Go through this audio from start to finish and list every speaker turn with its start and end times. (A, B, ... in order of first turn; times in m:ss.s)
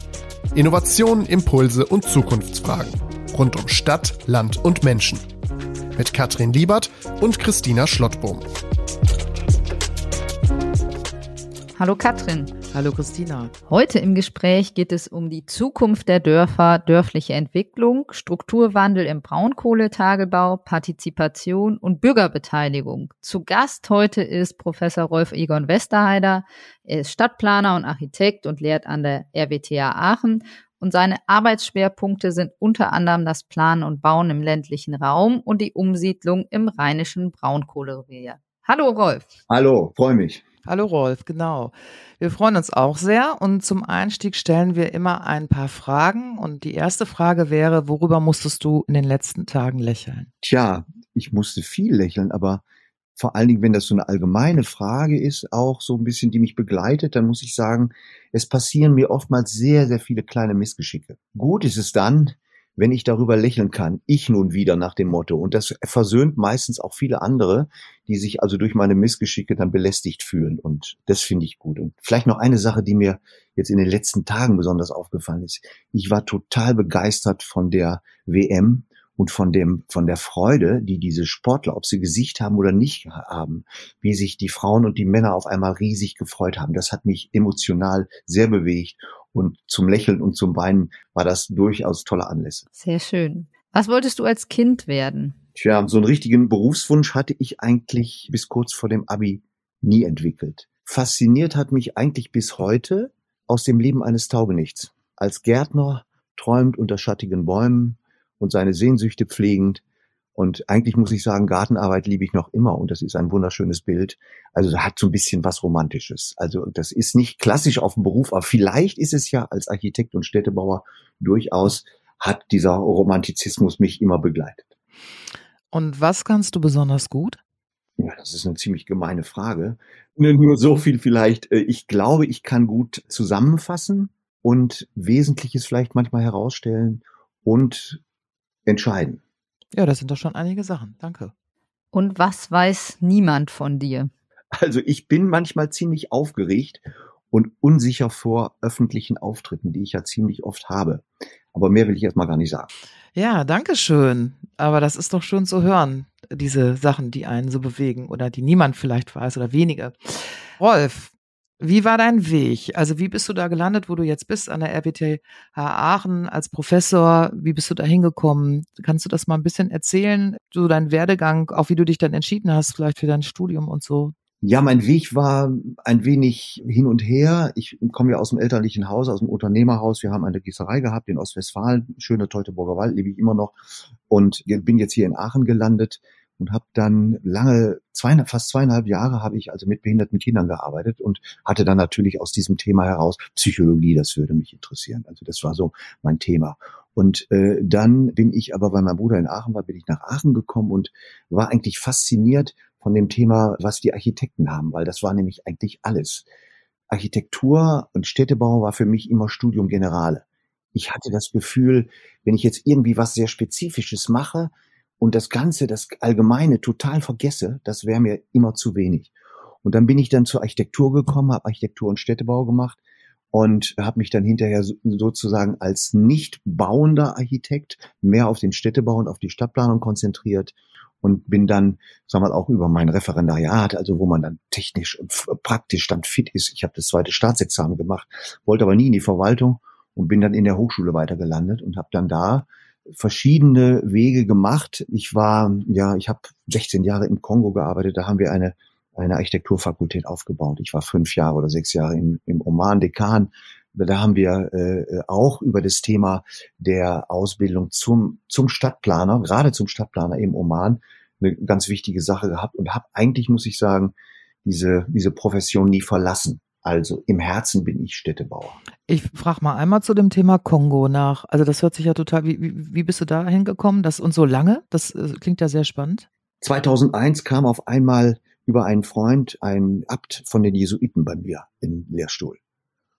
0:00.5-0:05.2 A
0:05.9-0:08.4 A
0:11.8-0:12.5 B
0:12.7-0:13.5 C
0:13.7-0:39.3 B
0:39.5-0:40.4 D
0:40.6-0:50.3 C
0:50.4-0:52.6 D
0:53.2-1:32.6 D
1:32.8-1:35.4 B
1:35.6-1:49.8 D
1:50.3-2:04.7 D
2:05.7-2:07.4 C
2:08.0-2:18.0 D
2:18.6-2:19.2 D
2:19.7-2:21.3 C
2:21.9-2:24.1 B
2:24.5-2:32.7 D
2:33.1-2:54.1 C
2:54.4-3:03.6 D
3:04.1-3:26.2 D
3:26.9-3:39.1 D
3:39.6-3:42.8 D
3:43.3-4:23.9 D
4:24.4-4:28.6 D
4:28.9-4:36.0 C
4:36.4-4:42.4 D